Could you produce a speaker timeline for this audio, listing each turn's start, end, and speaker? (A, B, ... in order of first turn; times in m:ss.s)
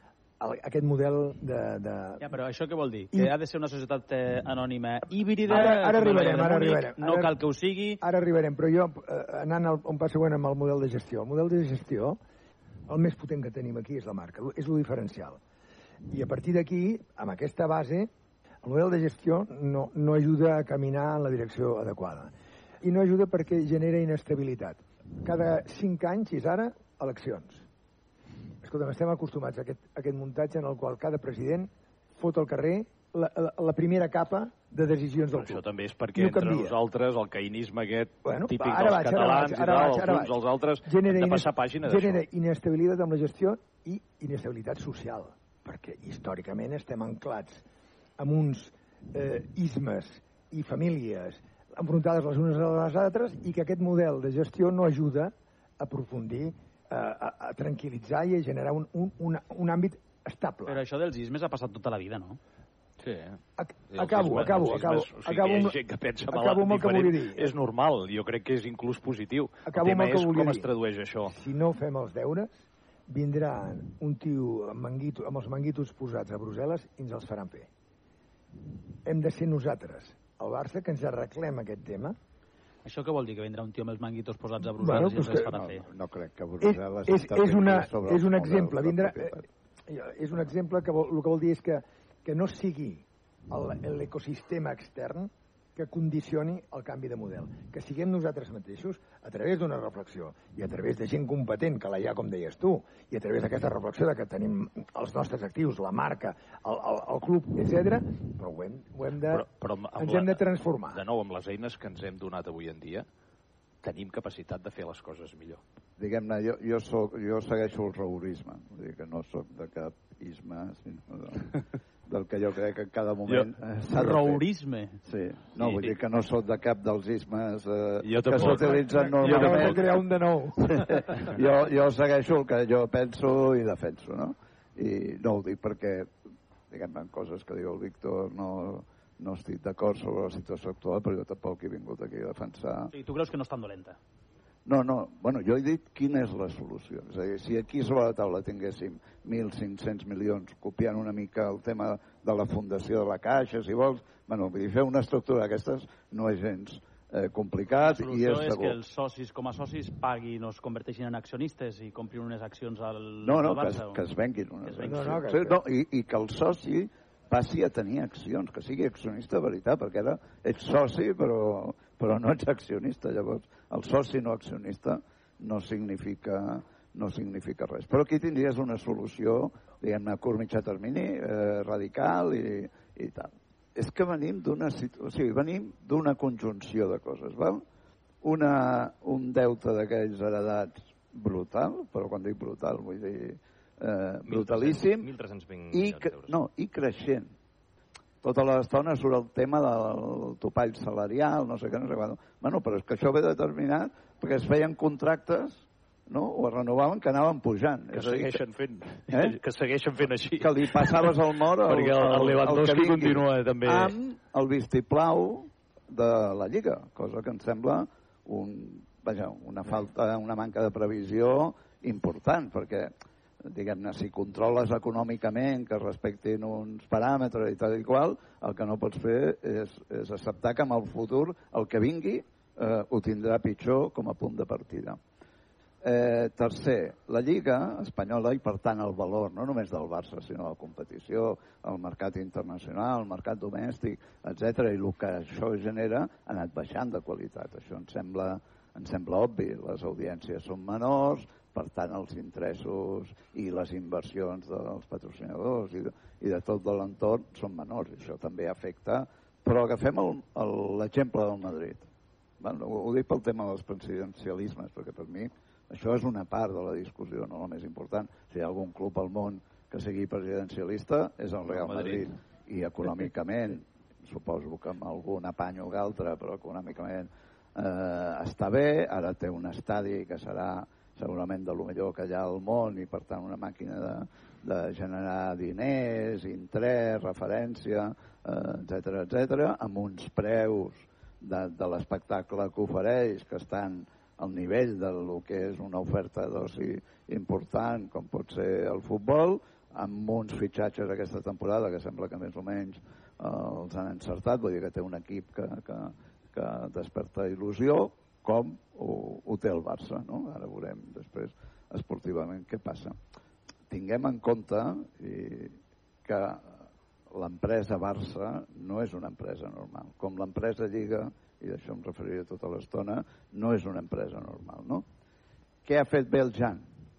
0:00.4-0:02.2 A
0:02.2-0:08.0 B
0:05.5-0:07.4 A
0:08.0-0:12.2 A
0:12.9-0:15.4 A
0:16.1-0:18.1 A
0:18.6-0:22.3 A
0:22.8-0:27.6 A
0:28.6-0:36.8 A
0:35.3-0:42.2 C
0:38.2-0:47.6 A
0:48.2-1:00.8 A
1:00.7-1:02.4 B
1:03.0-1:03.4 C
1:03.6-1:05.8 A
1:03.9-1:11.3 C
1:06.3-1:07.5 A
1:09.7-1:10.7 A
1:11.3-1:17.7 A
1:19.0-1:22.2 A
1:22.8-1:25.8 B
1:24.8-1:25.6 A
1:25.5-1:29.4 D
1:26.6-1:49.4 A
1:49.3-1:53.1 C
1:50.0-1:51.0 A
1:53.8-1:55.6 C
1:56.0-2:01.5 D
2:02.0-2:04.4 D
2:03.9-2:05.0 B
2:05.0-2:09.9 D
2:08.0-2:09.8 C
2:08.6-2:10.8 A
2:10.6-2:16.1 D
2:16.7-2:22.9 D
2:22.9-2:24.0 B
2:24.6-2:38.8 D
2:37.8-2:44.0 B
2:43.2-3:07.6 D
2:44.6-2:45.0 B
2:44.8-2:45.6 A
3:08.2-3:15.1 D
3:14.3-3:16.4 E
3:15.7-3:17.3 D
3:18.2-3:28.4 D
3:27.9-3:33.9 C
3:29.1-3:29.4 D
3:30.4-3:42.9 D
3:43.4-3:55.0 D
3:55.8-4:21.9 D
4:22.4-5:13.0 D
4:31.5-4:32.0 C
5:13.7-5:24.8 D
5:25.6-5:26.6 D